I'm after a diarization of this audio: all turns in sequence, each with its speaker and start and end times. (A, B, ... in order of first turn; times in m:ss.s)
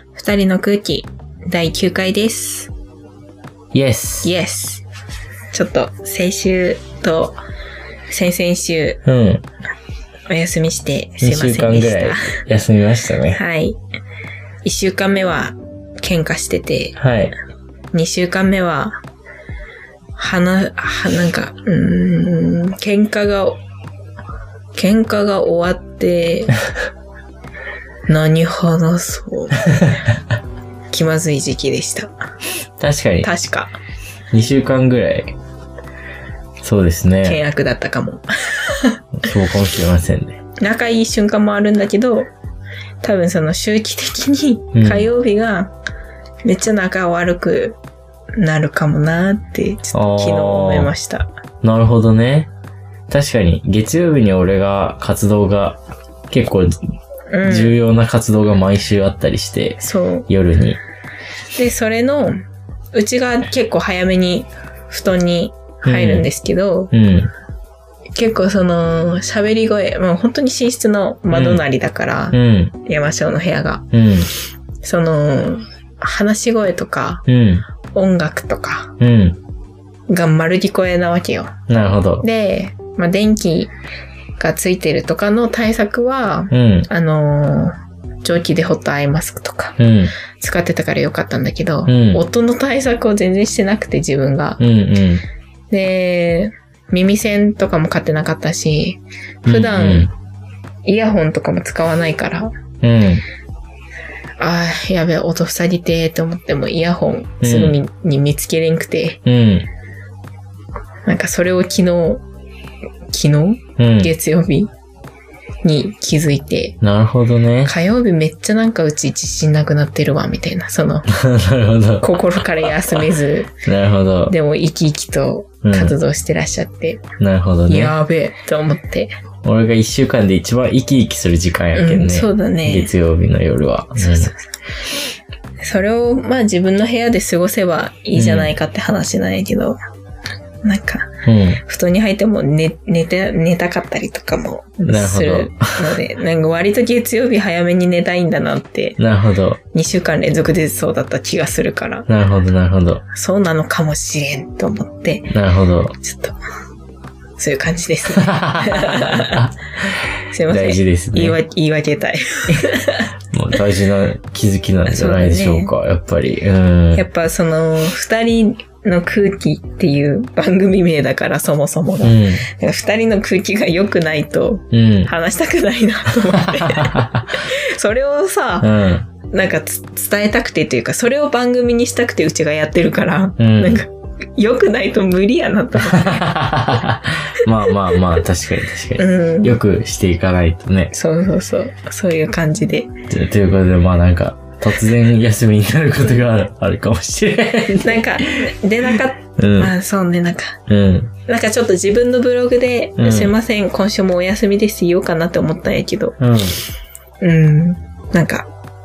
0:00.1-0:02.7 A
0:03.7-0:04.3 B
0:04.2-0:04.8 A
0:05.5-0:07.4 A
0:08.1-0:09.0 A
0:09.1-0:09.4 B
0:10.3-0:12.4 A
0:11.2-0:13.4 B
0:13.3-0:13.8 A
0:14.6-0:17.0 A
0:17.0-0:17.3 B
0:17.9-0:19.0 A
0:20.2-0:23.6 A
0:24.8-0:26.6 A
0:28.1-0:29.9 A
0:30.9-0:32.1 A
0:32.8-0:33.3 B
0:33.2-0:33.8 A
0:34.3-0:35.3 B
0:36.6-0:37.4 B
0:37.2-0:39.0 A
0:39.2-0:40.4 B
0:40.6-0:42.3 A
0:43.0-0:45.7 A
0:44.8-0:45.1 B
0:46.4-0:47.8 A
0:48.4-0:51.3 A
0:49.9-0:50.9 B
0:51.6-0:52.5 B
0:53.1-0:56.8 B
0:57.3-0:57.8 A
0:57.4-1:00.8 B
0:59.8-1:00.3 A
1:01.6-1:02.4 A
1:02.9-1:06.9 A
1:05.8-1:06.3 B
1:06.9-1:07.3 B
1:08.2-1:13.9 A
1:11.3-1:11.6 B
1:12.3-1:12.7 B
1:13.9-1:14.3 B
1:14.8-1:17.2 A
1:17.3-1:17.6 B
1:17.9-1:18.9 A
1:19.0-1:19.4 B
1:20.1-1:21.6 A
1:21.7-1:22.2 B
1:22.2-1:23.7 A
1:24.4-1:29.8 A
1:26.5-1:26.9 B
1:29.8-1:30.1 B
1:30.4-1:34.6 A
1:31.9-1:32.2 B
1:34.6-1:35.2 B
1:35.7-1:40.1 A
1:39.4-1:40.1 B
1:40.9-1:42.5 A
1:42.8-1:43.2 B
1:44.4-1:49.2 A
1:47.4-1:47.8 B
1:49.2-1:49.7 B
1:51.1-1:52.2 A
1:53.1-1:54.7 A
1:53.8-1:54.1 B
1:55.6-1:56.8 A
1:56.8-1:57.7 B
1:57.6-2:01.1 A
2:01.1-2:03.0 B
2:02.0-2:03.5 A
2:03.7-2:04.4 B
2:04.3-2:07.0 A
2:05.6-2:06.0 B
2:07.2-2:08.0 B
2:07.7-2:09.1 A
2:09.4-2:14.3 B
2:11.8-2:12.9 A
2:14.0-2:14.4 A
2:15.6-2:19.8 A
2:18.2-2:18.5 B
2:20.6-2:29.0 A
2:21.2-2:21.6 B
2:24.9-2:26.0 B
2:29.0-2:29.6 B
2:29.7-2:32.1 A
2:32.1-2:33.0 B
2:33.1-2:35.3 A
2:35.3-2:36.0 B
2:36.0-2:36.4 A
2:37.4-2:39.5 A
2:38.2-2:41.4 B
2:40.3-2:43.1 A
2:43.3-2:47.0 B
2:44.9-2:45.7 A
2:46.9-2:58.7 A
2:52.0-2:52.5 B
2:54.7-2:55.1 B
2:56.7-2:57.3 B
2:58.6-2:59.1 B
2:59.3-3:06.3 A
3:03.4-3:03.8 B
3:05.9-3:10.9 B
3:07.9-3:08.2 A
3:09.0-3:09.6 A
3:10.9-3:12.9 A
3:13.1-3:18.5 B
3:17.8-3:20.6 A
3:19.4-3:19.7 B
3:20.7-3:21.1 B
3:21.3-3:26.2 A
3:23.0-3:23.4 B
3:26.2-3:26.6 B
3:27.2-3:28.5 A